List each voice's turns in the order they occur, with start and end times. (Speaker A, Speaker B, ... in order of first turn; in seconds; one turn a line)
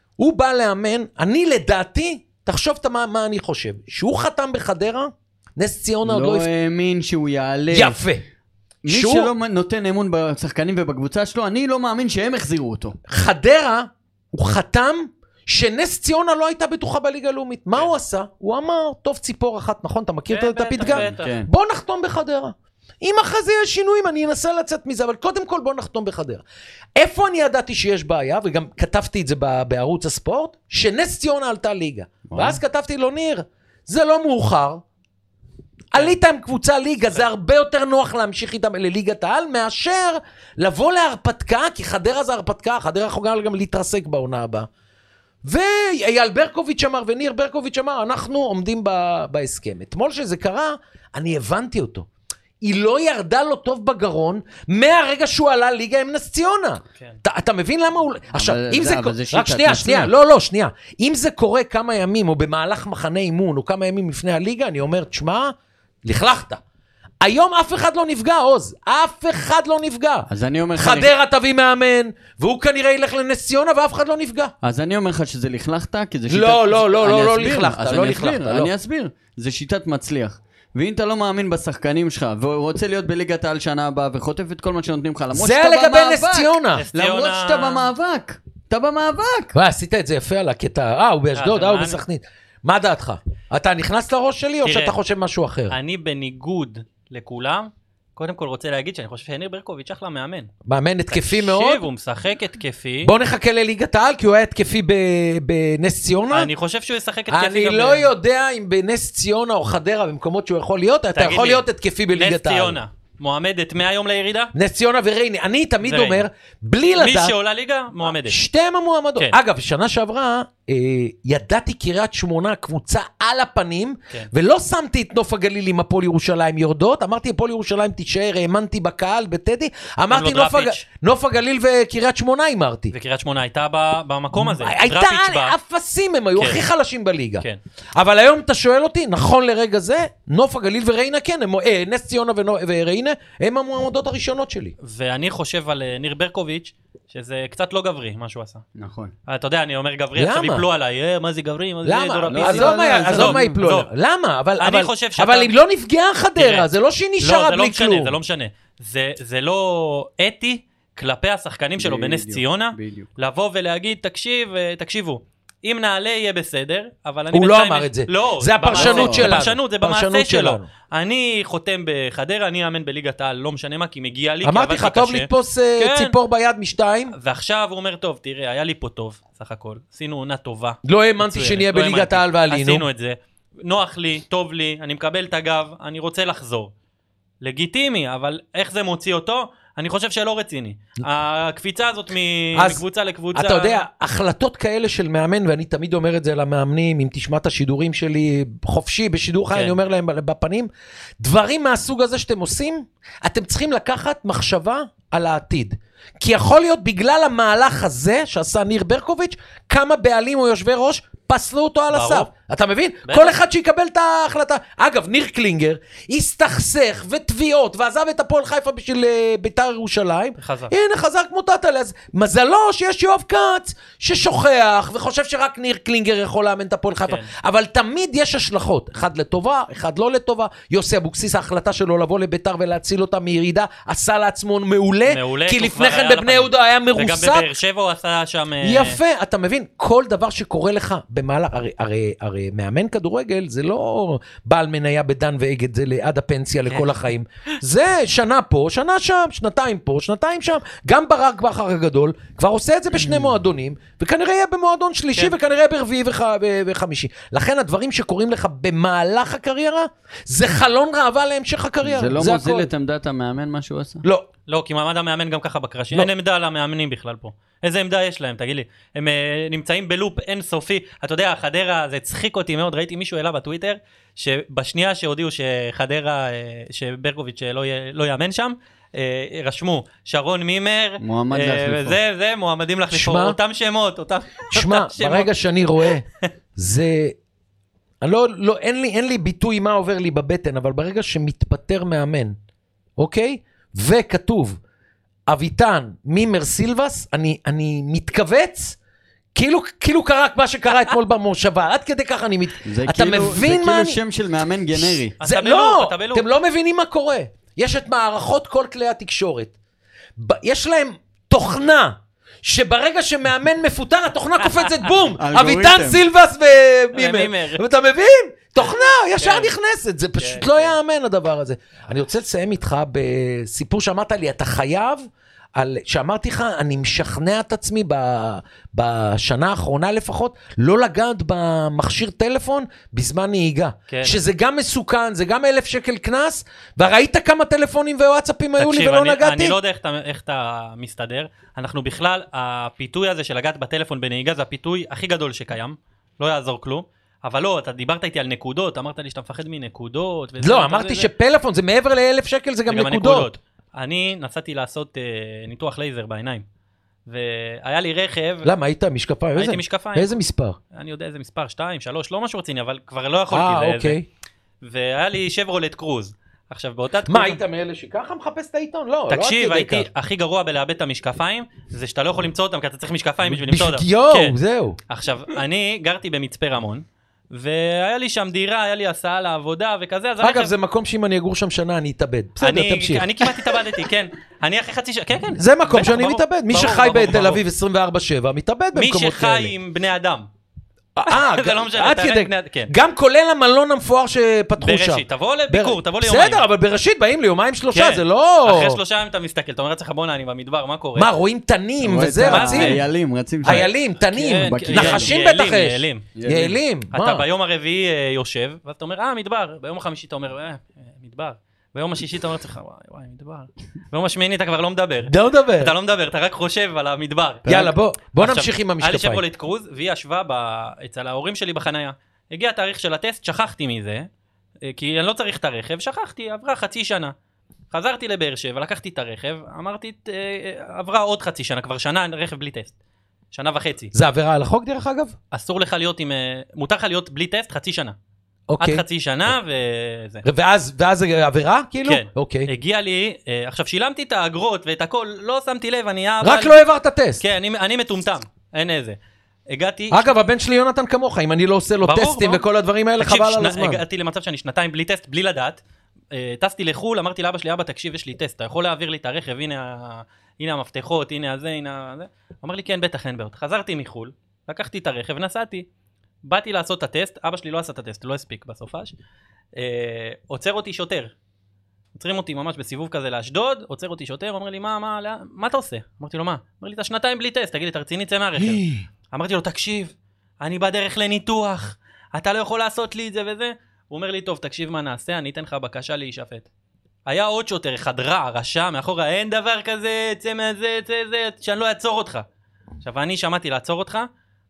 Speaker A: 0.2-6.5
Speaker B: 6.0-8.0
Speaker A: 7.7-8.2
Speaker B: 8.8-13.0
Speaker A: 8.9-9.3
Speaker A: 13.1-26.4
Speaker C: 20.3-21.3
Speaker B: 20.8-21.5
Speaker A: 26.9-34.8
Speaker B: 32.3-32.6
Speaker A: 35.9-44.7
Speaker A: 45.4-52.1
Speaker A: 52.6-66.6
Speaker B: 58.3-60.1
Speaker A: 67.2-74.5
Speaker B: 70.3-71.1
Speaker B: 74.6-89.5
Speaker A: 76.3-78.7
Speaker A: 85.3-86.8
Speaker C: 86.7-87.9
Speaker A: 89.5-95.8
Speaker C: 91.3-92.0
Speaker C: 94.6-95.0
Speaker C: 95.7-100.5
Speaker A: 100.6-101.8
Speaker C: 101.1-103.1
Speaker A: 103.0-106.5
Speaker C: 106.3-108.1
Speaker A: 107.3-112.8
Speaker C: 111.1-114.5
Speaker A: 114.5-117.3
Speaker C: 115.8-116.3
Speaker C: 116.9-118.4
Speaker A: 118.0-132.9
Speaker C: 130.1-130.8
Speaker C: 132.9-135.5
Speaker A: 134.3-144.7
Speaker C: 136.3-136.6
Speaker C: 144.8-148.6
Speaker B: 148.8-149.1
Speaker C: 149.3-153.9
Speaker A: 150.2-150.7
Speaker A: 151.8-158.2
Speaker B: 152.3-153.6
Speaker C: 154.6-155.5
Speaker C: 156.4-156.7
Speaker C: 157.2-176.1
Speaker B: 161.8-163.1
Speaker A: 167.3-170.7
Speaker B: 168.7-169.3
Speaker A: 174.4-177.1
Speaker C: 177.1-186.7
Speaker A: 180.8-182.8
Speaker C: 187.4-193.8
Speaker A: 192.5-192.8
Speaker A: 193.3-200.7
Speaker C: 199.5-199.8
Speaker A: 201.2-237.5
Speaker C: 211.9-212.3
Speaker C: 213.1-213.3
Speaker C: 220.4-220.7
Speaker C: 235.1-239.0
Speaker A: 238.6-262.7
Speaker B: 261.8-264.0
Speaker A: 264.0-264.3
Speaker C: 264.5-286.3
Speaker B: 281.0-282.0
Speaker A: 282.9-283.4
Speaker A: 284.5-286.0
Speaker A: 286.6-287.1
Speaker A: 288.0-292.3
Speaker A: 293.0-294.6
Speaker A: 295.3-298.8
Speaker A: 299.3-304.0
Speaker B: 302.6-305.1
Speaker C: 305.2-306.2
Speaker A: 305.2-309.5
Speaker A: 310.2-325.0
Speaker C: 314.4-315.1
Speaker B: 315.2-316.0
Speaker C: 316.9-317.6
Speaker C: 319.2-319.5
Speaker C: 320.2-320.7
Speaker A: 325.5-339.6
Speaker C: 333.9-334.2
Speaker C: 338.6-351.1
Speaker A: 350.4-353.3
Speaker C: 352.7-356.4
Speaker C: 357.1-358.5
Speaker A: 358.4-360.6
Speaker C: 359.4-360.1
Speaker C: 360.7-364.0
Speaker A: 363.3-364.1
Speaker C: 364.6-367.4
Speaker A: 367.1-369.9
Speaker C: 369.1-374.4
Speaker A: 373.3-374.8
Speaker C: 374.9-380.5
Speaker A: 380.2-383.5
Speaker C: 382.4-387.4
Speaker A: 385.4-389.5
Speaker C: 388.7-390.3
Speaker A: 390.9-398.8
Speaker C: 391.1-392.7
Speaker C: 394.6-396.4
Speaker C: 397.7-401.1
Speaker A: 400.9-402.8
Speaker B: 401.8-403.7
Speaker C: 402.2-402.9
Speaker A: 403.4-407.2
Speaker C: 403.4-406.1
Speaker B: 404.3-405.1
Speaker B: 406.1-406.6
Speaker C: 406.9-424.1
Speaker A: 415.1-415.7
Speaker A: 417.5-419.2
Speaker C: 424.6-427.1
Speaker C: 427.7-432.7
Speaker C: 433.3-433.9
Speaker A: 433.9-435.1
Speaker C: 435.3-437.9
Speaker A: 438.5-438.8
Speaker C: 438.6-440.2
Speaker A: 440.2-442.5
Speaker C: 441.9-446.6
Speaker A: 446.2-447.2
Speaker C: 447.2-449.0
Speaker C: 449.5-450.1
Speaker A: 449.9-453.8
Speaker C: 451.8-452.4
Speaker C: 453.0-465.6
Speaker C: 466.2-468.9
Speaker C: 469.6-471.1
Speaker C: 471.9-486.5
Speaker A: 478.4-478.8
Speaker C: 487.1-492.2
Speaker C: 492.8-494.1